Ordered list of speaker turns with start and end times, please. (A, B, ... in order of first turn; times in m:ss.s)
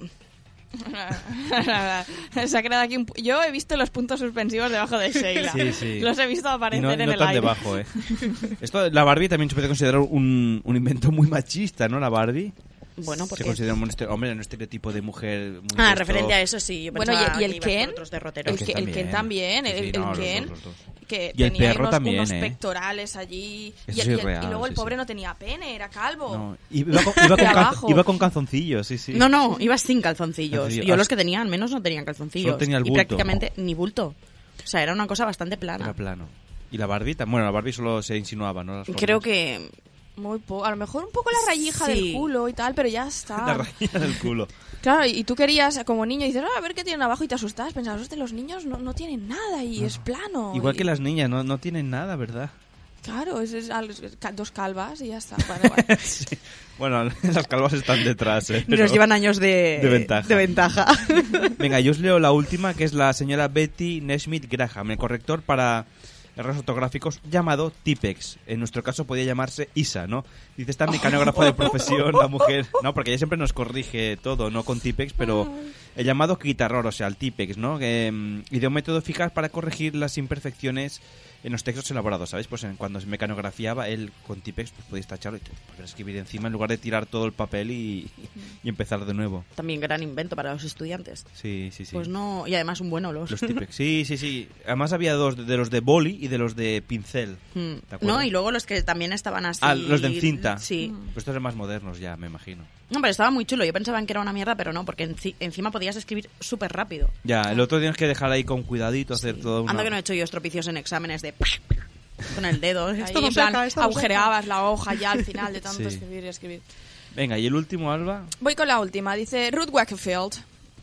0:00.8-0:08.5 A
0:05.4-0:05.6 B
0:05.5-0:06.1 C
0:06.7-0:12.6 C
0:13.0-0:13.8 B
0:13.2-0:16.4 C
0:15.7-0:18.7 B
0:16.9-0:26.4 A
0:18.4-0:20.8 C
0:21.4-0:22.6 C
0:23.9-0:25.0 C
0:26.3-0:29.3 C
0:27.1-0:28.0 A
0:29.1-0:36.0 B
0:30.5-0:31.1 C
0:32.4-0:33.3 C
0:35.8-0:39.3 C
0:38.9-0:39.7 B
0:40.2-0:43.7 A
0:41.4-0:42.3 B
0:43.4-0:44.5 C
0:44.8-0:50.9 A
0:50.5-0:52.5 C
0:53.0-0:56.0 A
0:55.6-0:59.1 C
0:58.6-1:01.6 B
0:59.7-1:00.8 C
1:01.6-1:29.4 C
1:29.6-1:31.3 B
1:31.4-1:32.1 C
1:31.9-1:33.6 B
1:33.3-1:38.3 C
1:37.6-1:41.0 B
1:39.6-1:42.7 C
1:40.8-1:41.1 A
1:42.9-1:47.1 B
1:47.2-1:50.0 C
1:49.2-1:51.7 B
1:52.3-1:54.3 B
1:53.0-1:56.6 A
1:55.7-1:56.0 C
1:57.1-1:58.3 C
1:58.4-2:00.4 A